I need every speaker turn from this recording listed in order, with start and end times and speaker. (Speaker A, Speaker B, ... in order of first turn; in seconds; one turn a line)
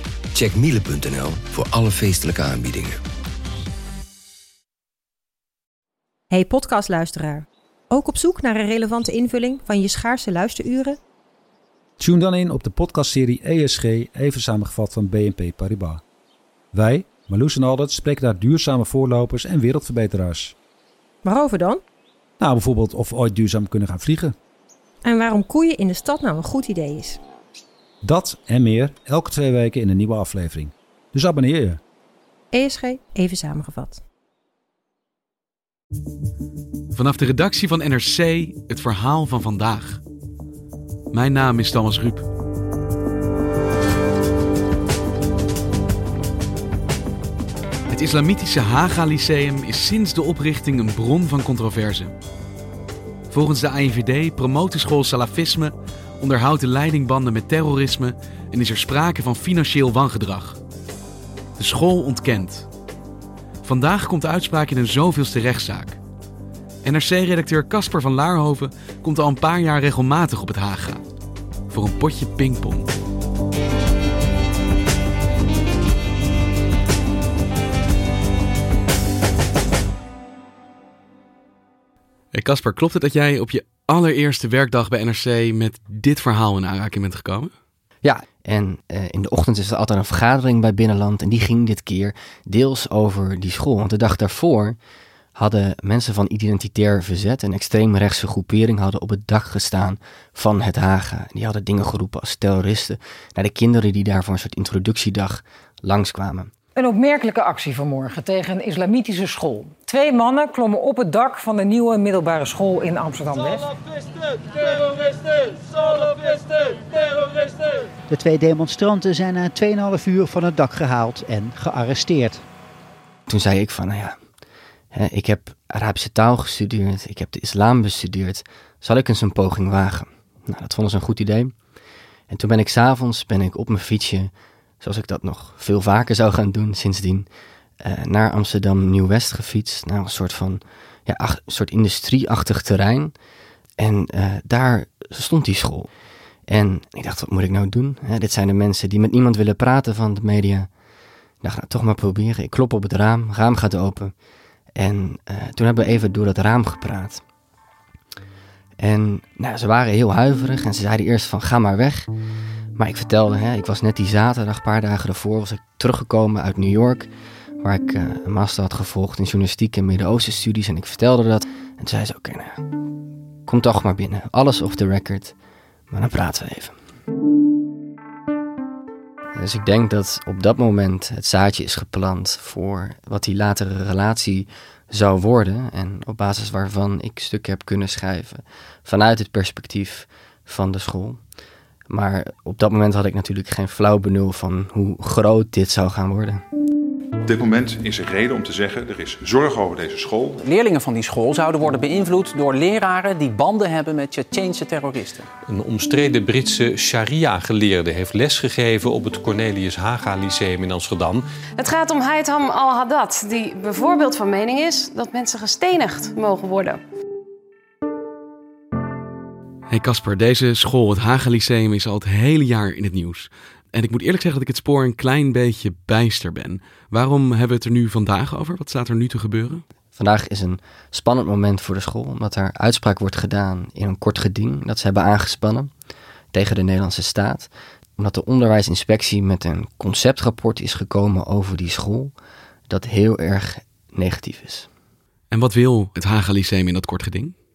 Speaker A: 0.3-3.0
Speaker B: 6.3-11.0
Speaker C: 12.0-16.0
Speaker C: 16.7-20.5
Speaker B: 21.2-21.8
Speaker C: 22.4-24.4
Speaker B: 25.1-27.2
Speaker C: 28.0-31.8
Speaker B: 32.5-34.0
Speaker D: 36.9-40.0
Speaker D: 41.1-42.3
Speaker D: 47.9-52.1
Speaker D: 53.3-60.6
Speaker D: 61.6-62.7
Speaker D: 63.6-66.0
Speaker D: 66.8-71.0
Speaker D: 71.7-72.9
Speaker D: 82.3-87.5
Speaker E: 88.0-94.8
Speaker E: 95.4-106.5
Speaker F: 106.8-113.7
Speaker G: 118.1-122.4
Speaker E: 123.3-124.2
Speaker E: 124.9-131.5
Speaker E: 132.3-137.3
Speaker E: 137.8-143.1
Speaker E: 143.8-145.9
Speaker E: 146.5-150.7
Speaker E: 151.4-154.1
Speaker E: 154.8-157.2
Speaker E: 158.8-162.1
Speaker E: 162.8-167.1
Speaker E: 167.6-172.6
Speaker E: 173.5-175.3
Speaker E: 175.9-176.8
Speaker E: 179.3-191.2
Speaker E: 191.9-196.4
Speaker H: 197.3-200.4
Speaker I: 200.5-205.3
Speaker J: 205.5-211.2
Speaker K: 211.6-216.8
Speaker D: 219.7-229.6
Speaker E: 229.9-235.7
Speaker E: 236.3-242.1
Speaker E: 242.7-244.7
Speaker D: 245.3-247.3